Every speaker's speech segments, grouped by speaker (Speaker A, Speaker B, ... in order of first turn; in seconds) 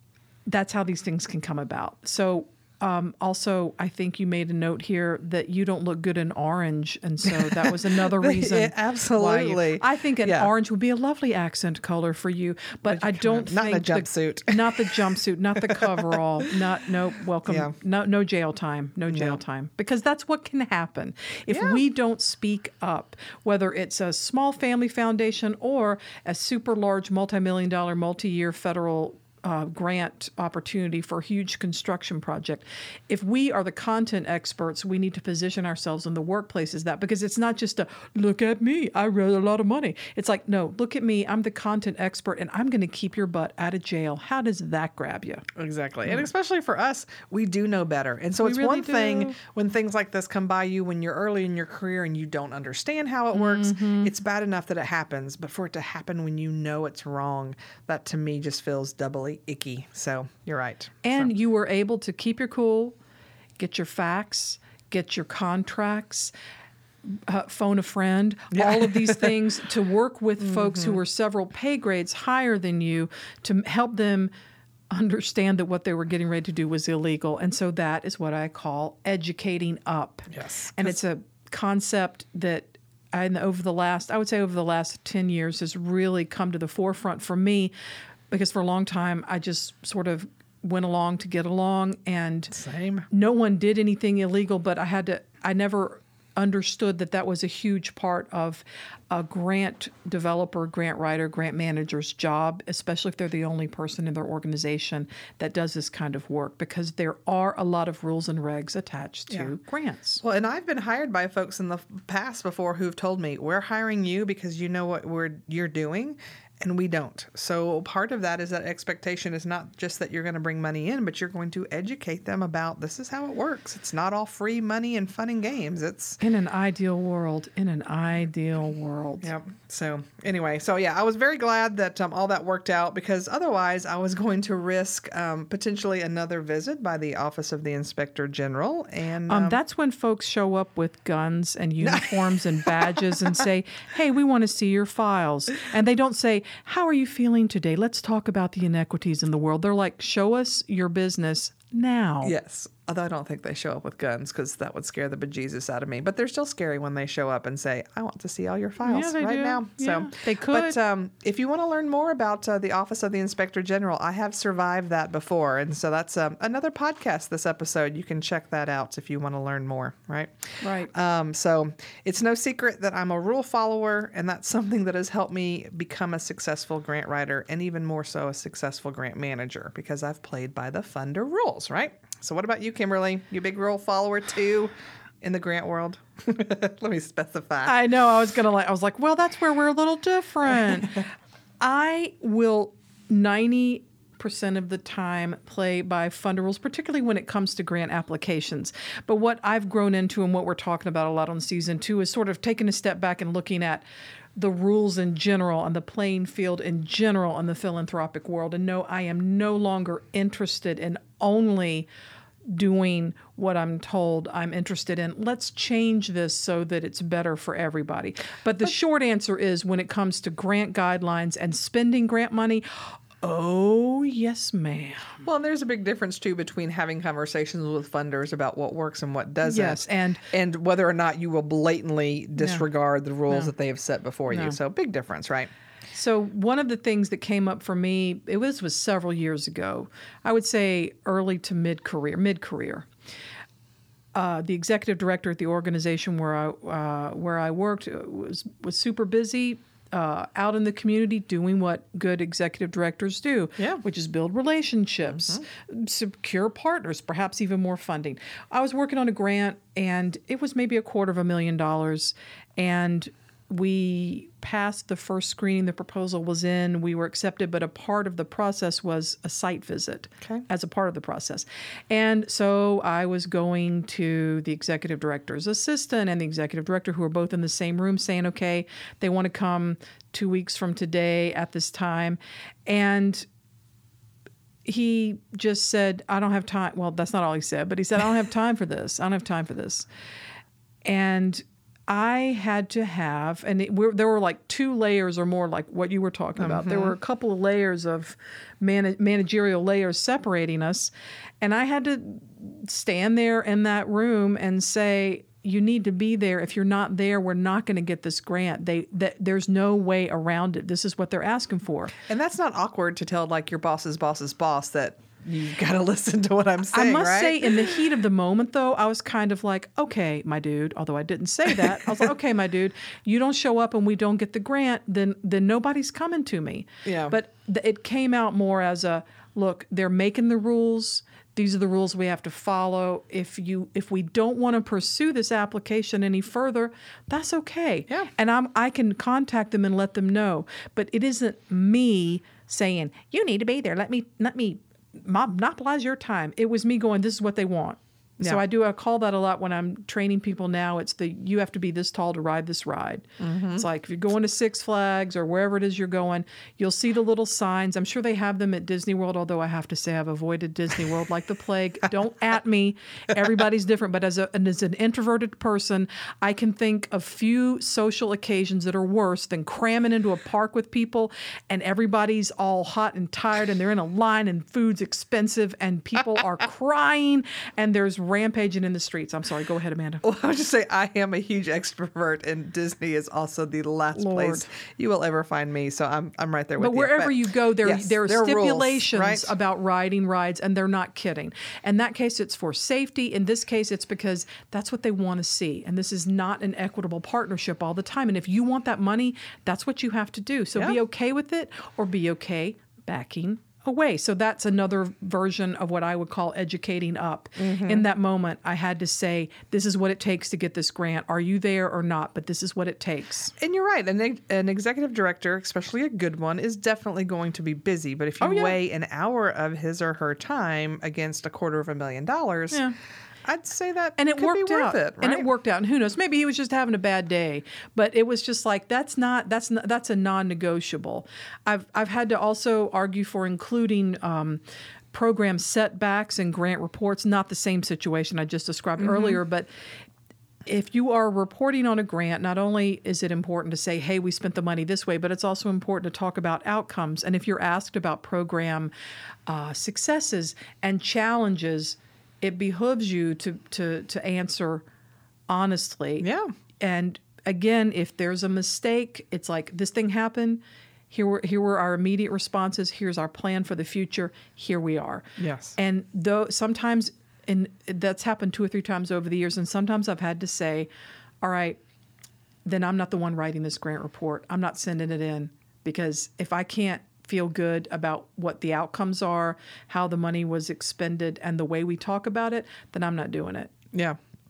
Speaker A: 0.5-45.5, 48.4-49.4, 53.3-54.1, 61.0-63.0, 63.6-66.3, 67.1-74.3, 74.9-87.7, 88.3-92.5, 93.1-110.2, 126.2-129.3, 139.3-152.3, 158.8-160.8, 170.6-170.9, 187.6-191.1, 191.6-203.8, 204.4-211.9, 212.5-225.2, 229.4-230.2, 232.4-232.7, 234.3-234.6, 235.9-242.9, 244.2-283.3, 284.6-289.9, 290.9-300.9, 301.4-311.9, 316.7-380.0, 383.9-384.5, 386.6-413.3, 418.2-418.6, 424.0-434.4, 434.9-439.5, 440.5-448.7, 449.3-454.6, 455.3-456.1, 456.6-465.1, 465.6-470.7, 471.2-471.6, 472.5-483.5
Speaker B: 7.3-10.5, 12.9-15.0, 15.6-16.2, 17.5-17.7, 19.1-19.4, 21.5-21.8, 45.5-61.3, 68.5-69.4, 70.4-71.0, 80.3-81.0, 92.5-93.1, 110.2-126.2, 129.2-139.6, 141.8-143.1, 152.2-187.7, 225.2-235.5, 255.1-255.4, 296.4-296.9, 312.0-317.8, 326.9-327.2, 353.2-353.6, 380.0-389.3, 407.4-407.9, 413.4-422.6, 423.2-425.3, 438.8-439.2, 456.0-456.3, 465.2-465.6, 483.7-484.0